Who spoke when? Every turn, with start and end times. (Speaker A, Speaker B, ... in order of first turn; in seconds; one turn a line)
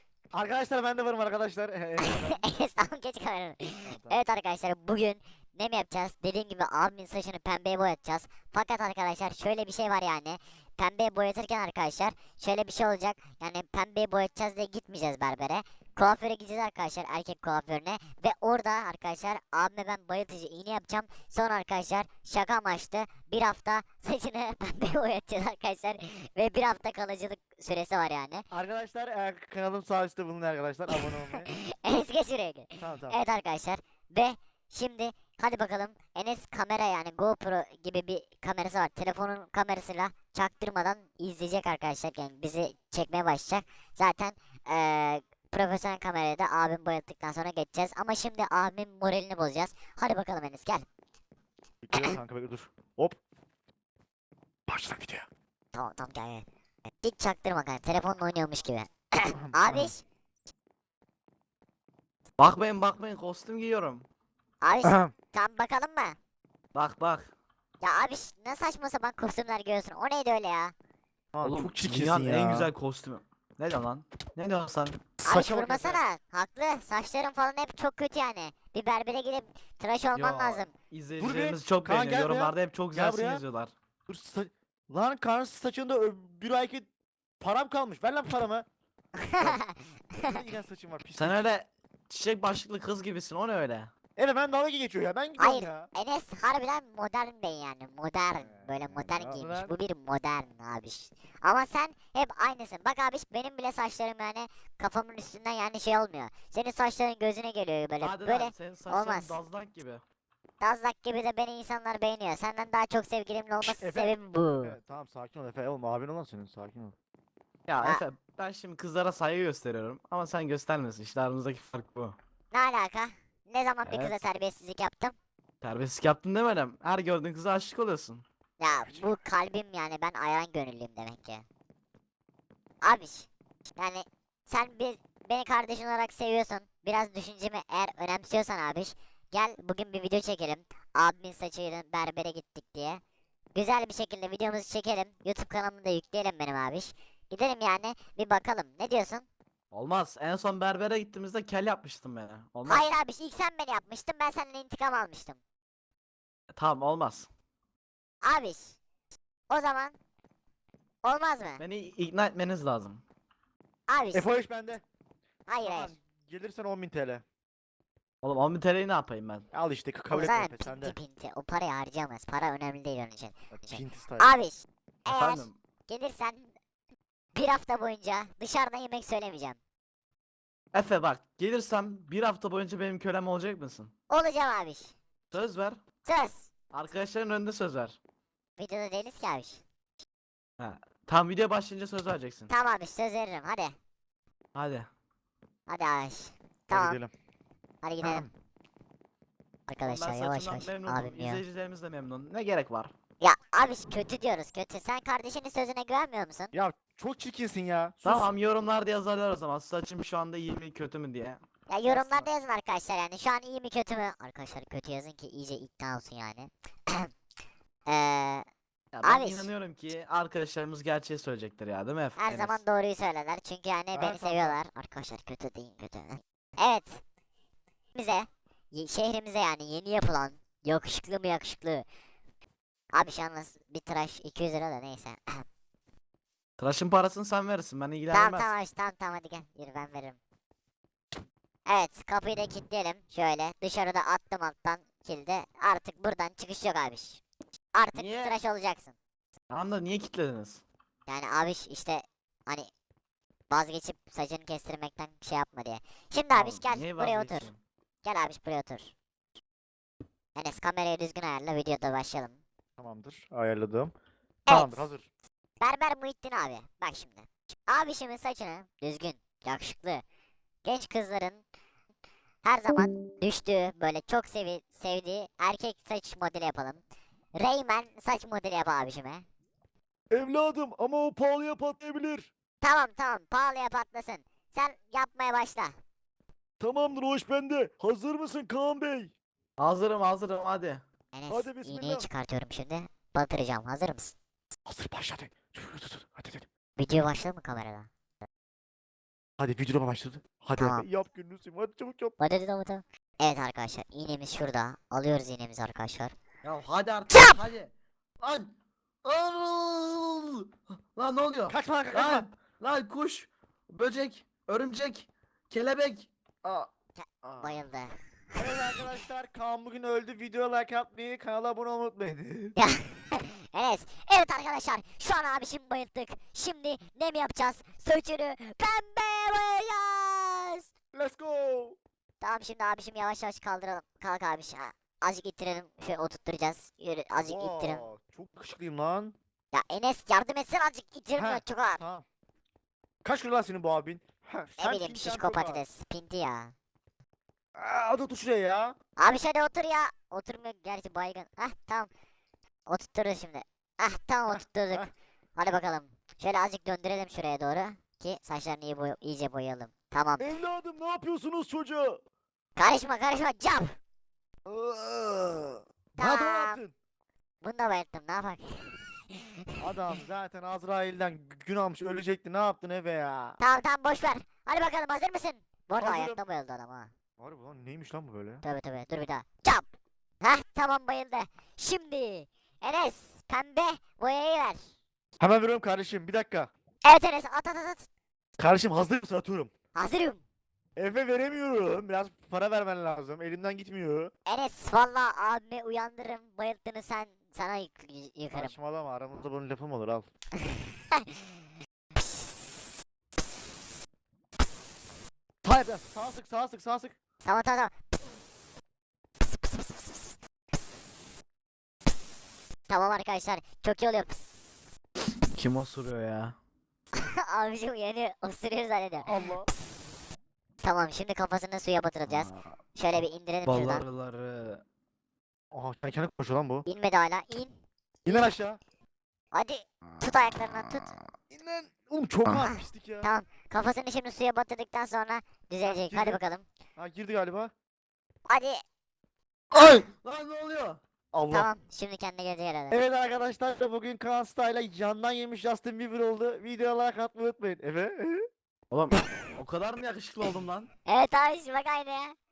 Speaker A: 0.3-2.4
Speaker B: 2.0-28.4
Speaker A: 3.8-4.2
Speaker A: 28.5-31.5
Speaker B: 31.0-50.8
Speaker A: 32.8-33.2
Speaker A: 51.8-53.2
Speaker A: 54.7-55.3
Speaker B: 55.7-56.4
Speaker B: 57.0-60.0
Speaker A: 59.4-59.9
Speaker C: 62.4-64.0
Speaker B: 64.6-66.2
Speaker A: 64.8-65.1
Speaker C: 66.7-67.3
Speaker B: 67.8-70.7
Speaker A: 71.3-72.7
Speaker C: 71.4-75.0
Speaker B: 75.2-80.7
Speaker A: 75.2-76.0
Speaker C: 80.1-83.7
Speaker A: 81.2-83.4
Speaker A: 84.1-86.9
Speaker A: 87.4-88.7
Speaker B: 89.2-90.5
Speaker A: 90.2-91.4
Speaker C: 91.2-93.9
Speaker A: 94.2-95.9
Speaker B: 95.4-109.4
Speaker A: 98.4-99.7
Speaker C: 108.0-110.0
Speaker B: 110.6-114.8
Speaker A: 113.6-116.9
Speaker C: 117.7-122.2
Speaker B: 122.5-125.2
Speaker C: 123.9-124.2
Speaker C: 125.6-128.2
Speaker B: 128.6-131.4
Speaker A: 128.7-129.1
Speaker B: 132.8-143.0
Speaker B: 143.5-149.2
Speaker C: 149.7-152.9
Speaker B: 152.7-155.4
Speaker C: 156.5-157.3
Speaker B: 158.2-158.8
Speaker B: 159.5-159.9
Speaker B: 161.0-161.6
Speaker C: 161.6-163.0
Speaker B: 163.9-164.4
Speaker A: 164.1-164.8
Speaker B: 165.5-165.9
Speaker A: 165.6-167.2
Speaker C: 168.2-169.5
Speaker A: 169.5-170.9
Speaker B: 170.1-176.5
Speaker A: 173.6-174.3
Speaker C: 175.1-175.6
Speaker B: 177.3-179.6
Speaker C: 180.7-183.9
Speaker B: 184.1-184.9
Speaker C: 185.3-185.8
Speaker B: 186.0-186.5
Speaker C: 186.7-188.0
Speaker B: 188.6-189.6
Speaker C: 190.6-192.5
Speaker B: 192.5-193.7
Speaker C: 194.5-194.9
Speaker B: 195.7-197.0
Speaker A: 196.7-197.1
Speaker B: 197.8-198.3
Speaker A: 198.0-198.3
Speaker B: 199.7-201.4
Speaker C: 199.8-202.9
Speaker B: 203.2-206.5
Speaker A: 206.5-208.3
Speaker C: 208.0-212.3
Speaker B: 211.7-217.1
Speaker B: 217.9-218.4
Speaker C: 218.9-222.6
Speaker B: 219.0-219.5
Speaker B: 222.2-227.0
Speaker A: 223.9-224.6
Speaker B: 227.9-231.8
Speaker B: 232.9-235.4
Speaker C: 236.6-238.5
Speaker B: 238.1-240.2
Speaker B: 241.7-247.2
Speaker B: 247.7-248.9
Speaker C: 247.9-248.4
Speaker C: 249.5-250.6
Speaker B: 251.1-252.7
Speaker B: 253.5-257.5
Speaker C: 256.3-257.6
Speaker B: 258.0-258.9
Speaker B: 260.4-262.4
Speaker A: 262.8-263.9
Speaker B: 264.5-264.9
Speaker A: 264.5-265.1
Speaker B: 265.6-270.0
Speaker B: 270.6-271.4
Speaker B: 272.4-276.8
Speaker B: 277.3-279.2
Speaker A: 280.1-282.3
Speaker B: 282.6-285.7
Speaker A: 286.6-289.1
Speaker C: 289.6-290.8
Speaker B: 291.1-294.1
Speaker A: 291.3-292.1
Speaker A: 294.7-296.4
Speaker B: 296.8-297.9
Speaker A: 299.4-302.1
Speaker B: 300.6-300.8
Speaker B: 302.2-306.1
Speaker C: 306.4-308.5
Speaker B: 307.1-307.4
Speaker C: 309.0-316.7
Speaker A: 311.5-312.2
Speaker B: 316.9-318.8
Speaker A: 318.4-322.6
Speaker B: 322.6-330.7
Speaker A: 330.9-331.8
Speaker B: 332.2-337.8
Speaker A: 337.2-339.1
Speaker B: 339.5-341.8
Speaker A: 341.1-342.0
Speaker A: 343.0-345.6
Speaker B: 344.6-346.5
Speaker A: 347.6-348.7
Speaker B: 349.0-351.9
Speaker B: 352.7-360.3
Speaker A: 354.3-354.9
Speaker A: 360.2-362.0
Speaker B: 362.6-363.7
Speaker A: 364.4-366.7
Speaker B: 366.0-366.6
Speaker B: 367.4-369.4
Speaker A: 369.6-373.4
Speaker B: 373.4-376.9
Speaker A: 375.8-376.2
Speaker A: 377.2-378.4
Speaker B: 378.4-379.6
Speaker B: 380.2-384.6
Speaker A: 385.2-386.5
Speaker B: 386.8-387.9
Speaker A: 388.4-389.5
Speaker B: 389.7-390.2
Speaker A: 390.8-394.1
Speaker B: 394.3-398.5
Speaker A: 398.3-400.1
Speaker B: 400.5-401.1
Speaker A: 405.4-406.9
Speaker B: 407.2-407.7
Speaker B: 409.3-410.0
Speaker B: 412.7-414.3
Speaker C: 415.3-416.4
Speaker B: 417.0-419.2
Speaker A: 419.1-419.5
Speaker B: 420.6-423.9
Speaker C: 422.1-422.5
Speaker C: 423.4-424.6
Speaker A: 425.5-426.6
Speaker B: 426.6-427.5
Speaker B: 428.1-428.3
Speaker A: 428.1-428.6
Speaker B: 429.3-430.9
Speaker A: 431.3-433.1
Speaker B: 432.5-436.4
Speaker A: 435.6-436.2
Speaker A: 436.8-437.5
Speaker B: 438.3-438.6
Speaker C: 439.5-440.8
Speaker A: 441.1-441.5
Speaker B: 441.3-442.8
Speaker A: 442.7-448.3
Speaker C: 448.7-450.7
Speaker B: 450.9-452.1